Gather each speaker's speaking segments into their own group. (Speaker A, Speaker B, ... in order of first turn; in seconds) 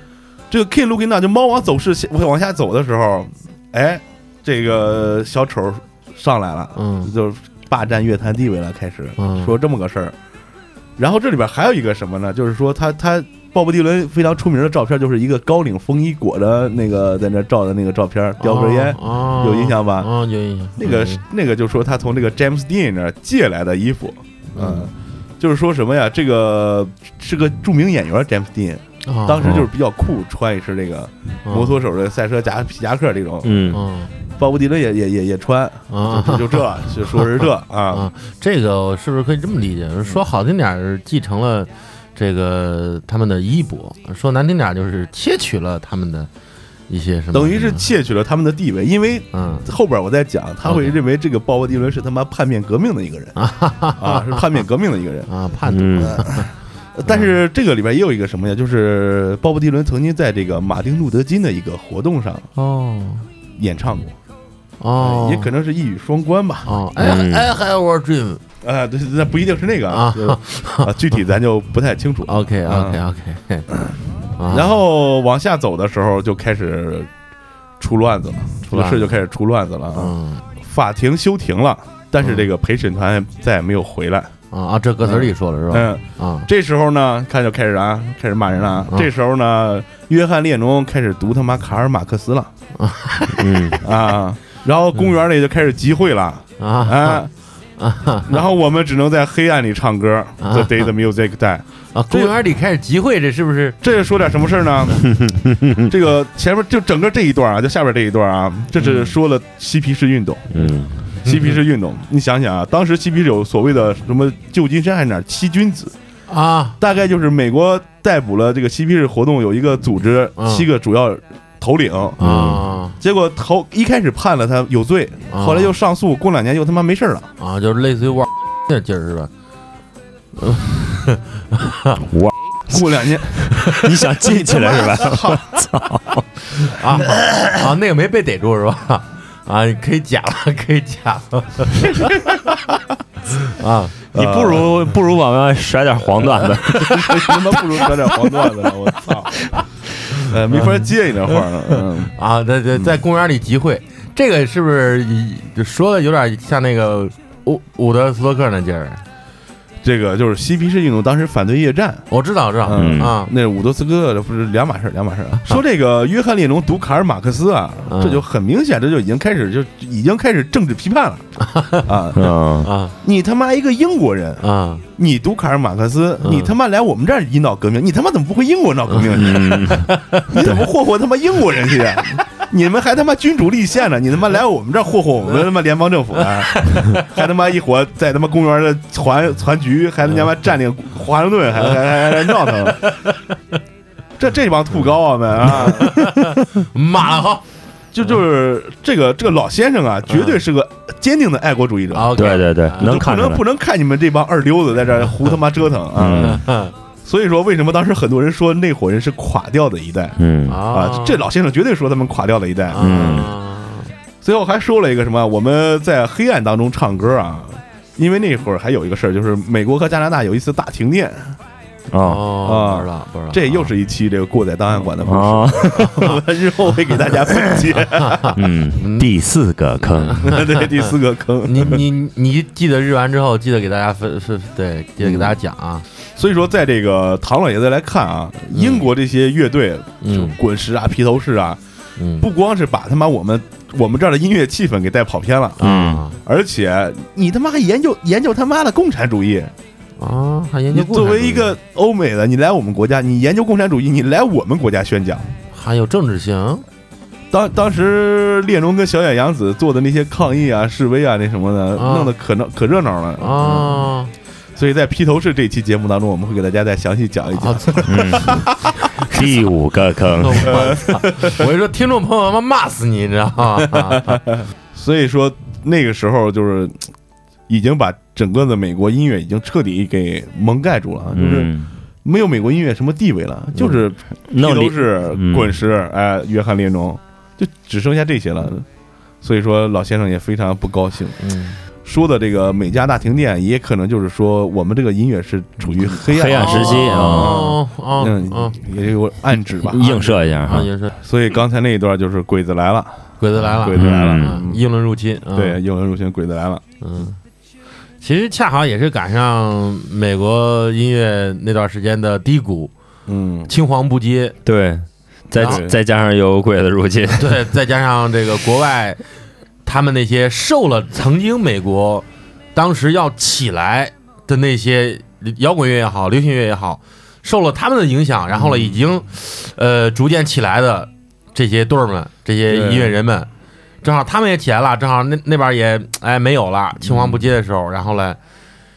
Speaker A: 0.5-10.1, 11.0-20.1, 20.8-33.8, 34.4-38.1, 47.3-53.4, 53.9-55.3, 56.0-62.5, 63.6-64.1, 65.0-66.7, 68.6-73.0, 73.7-77.1, 77.8-84.3, 85.0-92.5, 93.8-97.3, 98.2-102.3, 103.8-105.1, 105.8-110.5, 111.2-115.9, 116.8-127.3, 132.7-133.5, 134.2-135.5, 141.9-142.3, 144.1-144.9, 146.6-149.4, 150.2-152.1, 159.8-162.1, 162.6-171.3, 171.8-172.3, 173.0-192.9, 194.2-196.1, 197.9-206.5, 207.0-210.2, 210.7-213.3, 214.2-221.4, 222.4-228.3, 230.3-231.8, 235.0-235.3, 236.1-241.6, 242.2-245.6, 246.2-249.5, 250.7-255.3, 257.3-263.8, 264.6-268.6, 270.6-271.4, 274.0-276.8, 277.5-281.5, 282.0-288.6, 289.2-291.2, 291.8-300.3, 300.9-304.6, 305.3-306.6, 313.1-313.5, 315.4-315.8, 328.3-328.7, 332.5-332.9
Speaker B: 6.8-7.1, 9.2-9.5, 18.4-21.2, 24.6-24.9, 29.1-29.6, 31.4-31.8, 33.7-34.1, 35.9-46.3, 46.9-47.9, 49.3-49.7, 50.6-50.9, 53.4-54.6, 55.3-56.5, 57.0-57.3, 62.5-63.2, 64.8-65.5, 66.7-68.4, 69.9-70.9, 72.2-73.7, 74.4-74.7, 78.7-79.1, 79.9-80.4, 82.2-82.5, 84.5-86.5, 92.8-93.8, 96.6-97.2, 97.8-98.4, 100.4-100.9, 101.9-103.8, 108.8-109.1, 111.2-111.5, 116.3-116.8, 120.4-120.7, 122.2-123.0, 125.3-125.7, 127.4-129.3, 130.4-132.0, 136.7-141.9, 143.4-144.0, 152.2-159.0, 162.1-163.3, 167.9-168.2, 171.4-171.8, 172.6-172.9, 174.4-174.8, 176.2-176.5, 178.9-180.6, 186.2-187.1, 191.7-193.2, 195.5-197.4, 200.1-200.4, 201.9-203.0, 206.2-206.7, 210.5-211.2, 212.7-213.9, 222.0-223.7, 227.9-229.1, 230.0-230.6, 231.4-235.8, 238.5-238.9, 240.0-240.3, 242.0-242.3, 245.6-246.2, 250.0-251.5, 255.5-256.6, 261.8-262.1, 263.2-264.1, 267.4-268.0, 270.2-274.2, 291.2-291.6, 296.3-298.6, 300.4-300.9, 303.2-305.6, 306.8-307.2, 308.0-312.7, 313.5-314.4, 317.2-319.0, 319.6-333.3, 333.8-338.2
Speaker C: 33.4-33.8, 55.7-56.2, 67.0-67.5, 93.3-93.8, 105.2-105.8, 110.5-110.9, 122.2-122.6, 132.1-136.4, 144.1-147.4, 162.7-163.1, 172.1-172.7, 179.1-180.6, 202.1-203.4, 205.9-206.4, 210.2-210.6, 212.8-213.3, 221.9-222.2, 225.0-226.1, 228.3-230.4, 245.6-246.0, 267.9-268.5, 269.0-270.7, 281.1-281.7, 284.3-285.6, 295.9-297.4, 299.6-300.7, 303.7-304.4, 314.4-317.4